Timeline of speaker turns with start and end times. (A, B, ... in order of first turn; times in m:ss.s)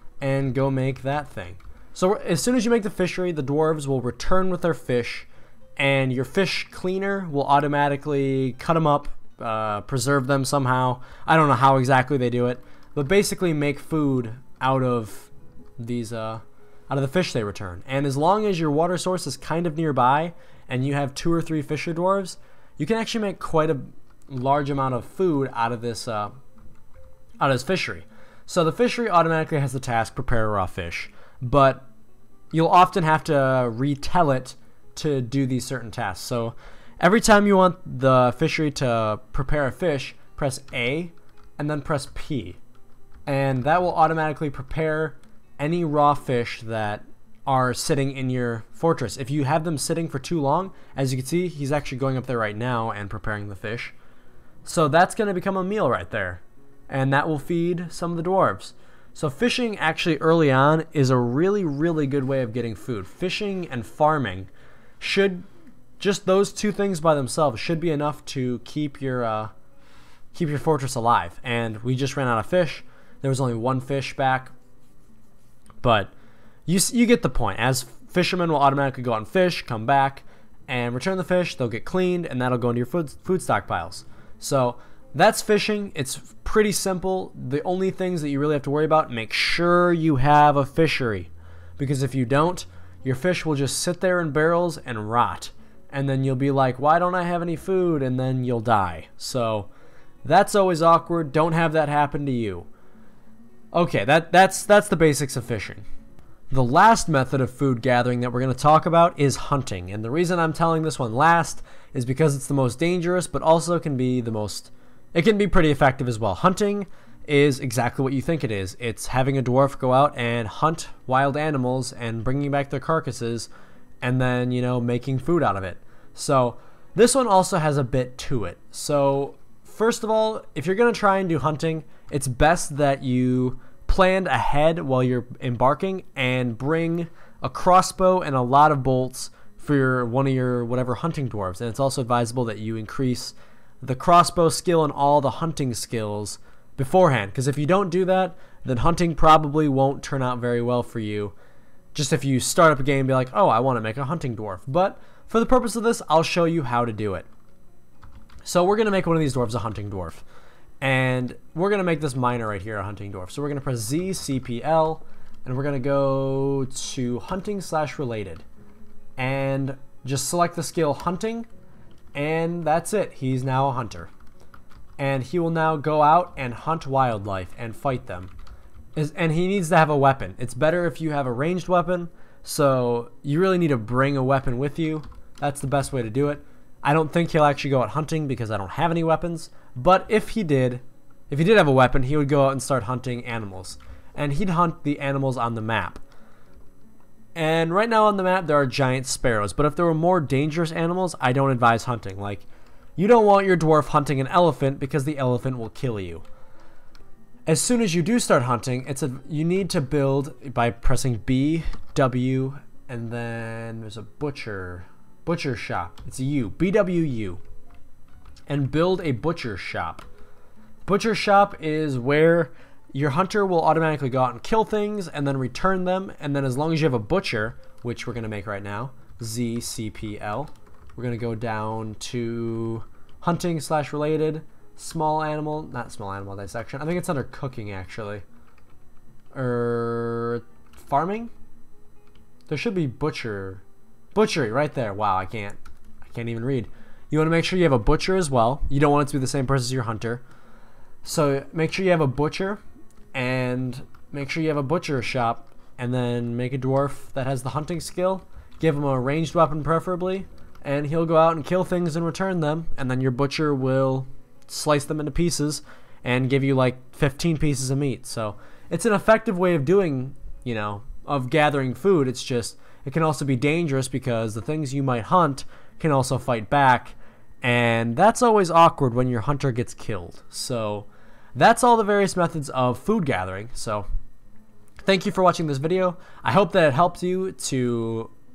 0:00.2-0:26.3 A
0:27.4-0:31.9 A
0:32.5-0:42.6 A
0:43.2-0:53.9 A
0:54.6-1:05.4 A
1:06.0-1:09.5 A
1:10.3-1:14.5 A
1:15.8-1:16.1 A
1:16.7-1:39.7 A
1:40.2-1:42.7 A
1:43.7-1:45.8 A
1:46.5-2:03.5 A
2:04.0-2:31.3 A
2:31.9-2:37.3 A
2:38.4-2:40.2 A
2:40.8-2:48.4 A
2:49.2-2:51.5 A
2:52.1-2:54.1 A
2:55.0-2:58.3 A
2:59.0-3:16.0 A
3:17.3-3:22.4 A
3:23.0-3:26.2 A
3:27.5-3:37.4 A
3:38.5-3:40.0 A
3:40.8-3:58.2 A
3:59.3-4:01.3 A
4:02.5-4:03.6 A
4:04.1-4:10.2 A
4:11.0-4:12.6 A
4:13.1-4:43.9 A
4:44.8-4:48.1 A